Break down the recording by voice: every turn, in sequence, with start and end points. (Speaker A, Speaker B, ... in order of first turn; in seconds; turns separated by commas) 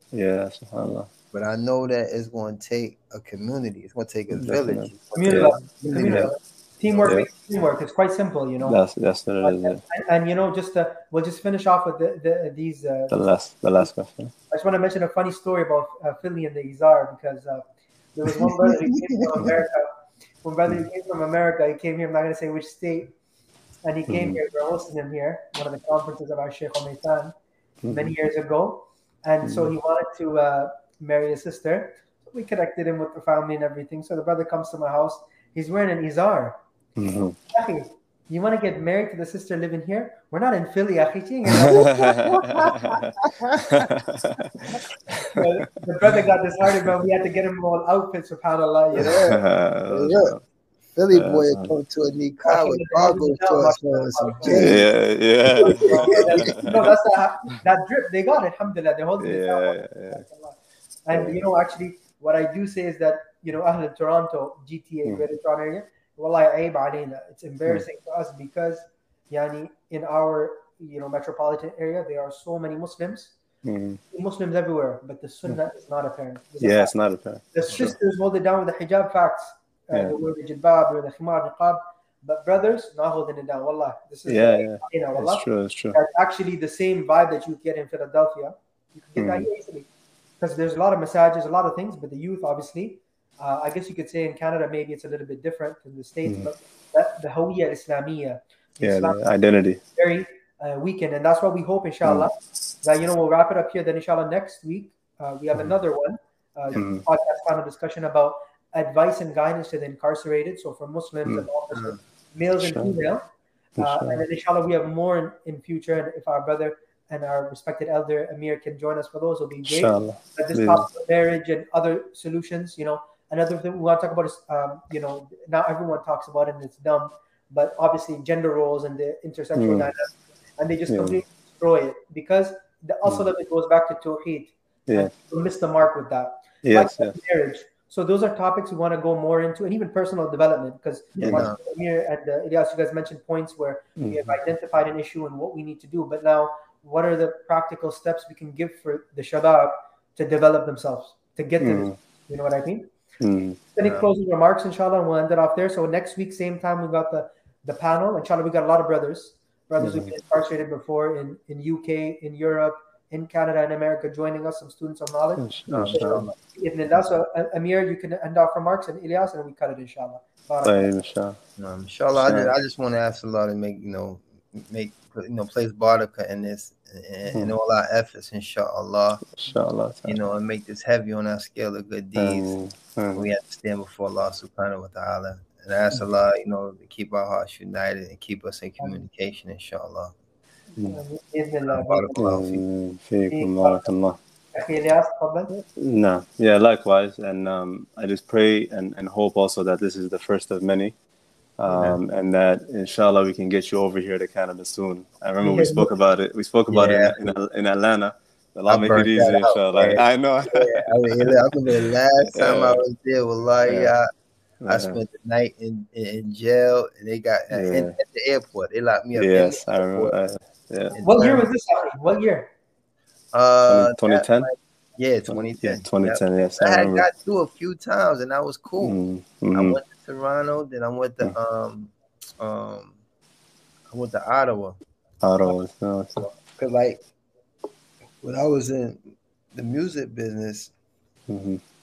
Speaker A: 0.1-1.1, Speaker B: 1.3-6.3, Speaker A: 4.3-6.3, Speaker C: 5.1-8.8, Speaker B: 6.8-7.1, Speaker A: 8.6-9.8, Speaker C: 9.4-13.1, Speaker A: 13.1-14.3, Speaker C: 14.5-19.9, Speaker B: 18.4-19.4, Speaker C: 20.4-23.1, Speaker C: 23.8-27.3, Speaker A: 24.1-24.4, Speaker A: 27.8-28.1, Speaker C: 27.9-36.6, Speaker A: 29.4-29.7, Speaker A: 37.0-37.4, Speaker C: 37.5-43.0, Speaker A: 41.5-43.1, Speaker B: 42.2-43.9, Speaker A: 43.7-45.5, Speaker C: 45.2-49.2, Speaker A: 46.1-46.9, Speaker B: 48.9-50.3, Speaker A: 49.0-50.4, Speaker B: 51.0-54.9, Speaker A: 51.1-51.7, Speaker C: 52.4-54.9, Speaker A: 54.5-56.9, Speaker B: 55.5-56.5, Speaker C: 55.6-73.3, Speaker A: 59.2-60.2, Speaker A: 61.1-61.4, Speaker A: 73.7-74.0, Speaker C: 74.1-76.9, Speaker A: 76.6-78.0, Speaker C: 77.5-89.9, Speaker A: 84.3-86.0, Speaker A: 89.2-89.5, Speaker C: 90.4-99.3, Speaker A: 96.3-96.5, Speaker A: 98.8-99.8, Speaker C: 100.0-113.2, Speaker A: 102.0-102.3, Speaker A: 106.8-107.1, Speaker A: 112.6-113.0, Speaker A: 113.8-114.2, Speaker C: 113.8-152.9, Speaker A: 119.7-120.9, Speaker A: 129.6-129.9, Speaker A: 130.9-131.2, Speaker A: 134.9-135.1, Speaker A: 136.6-137.2, Speaker A: 141.2-141.5, Speaker B: 141.3-141.6, Speaker A: 144.0-144.4, Speaker A: 151.6-151.9, Speaker A: 153.2-153.6, Speaker C: 153.8-170.9, Speaker B: 153.8-154.1, Speaker A: 159.8-160.1, Speaker A: 165.4-166.3, Speaker B: 165.7-166.4, Speaker A: 170.6-171.4, Speaker B: 171.6-179.3, Speaker A: 172.1-172.5, Speaker A: 179.3-180.2, Speaker B: 180.1-182.6, Speaker A: 182.2-183.3, Speaker B: 183.2-190.2, Speaker C: 190.9-192.2, Speaker B: 191.7-192.6, Speaker A: 192.2-194.2, Speaker C: 193.3-193.9, Speaker C: 194.5-195.5, Speaker A: 195.5-200.9, Speaker A: 201.6-211.4, Speaker B: 201.7-202.0, Speaker C: 205.4-205.9, Speaker B: 206.7-207.3, Speaker B: 208.7-214.1, Speaker A: 212.3-212.8, Speaker A: 213.7-213.9, Speaker A: 214.6-215.0, Speaker B: 214.7-220.2, Speaker A: 217.5-218.0, Speaker A: 219.2-221.0, Speaker B: 220.9-221.5, Speaker C: 221.0-222.5, Speaker B: 223.3-229.0, Speaker A: 223.7-224.5, Speaker A: 225.3-227.1, Speaker A: 228.8-229.8, Speaker B: 229.5-233.0, Speaker B: 233.9-234.8, Speaker A: 235.2-236.3, Speaker B: 236.3-237.1, Speaker B: 238.2-240.7, Speaker A: 241.3-241.6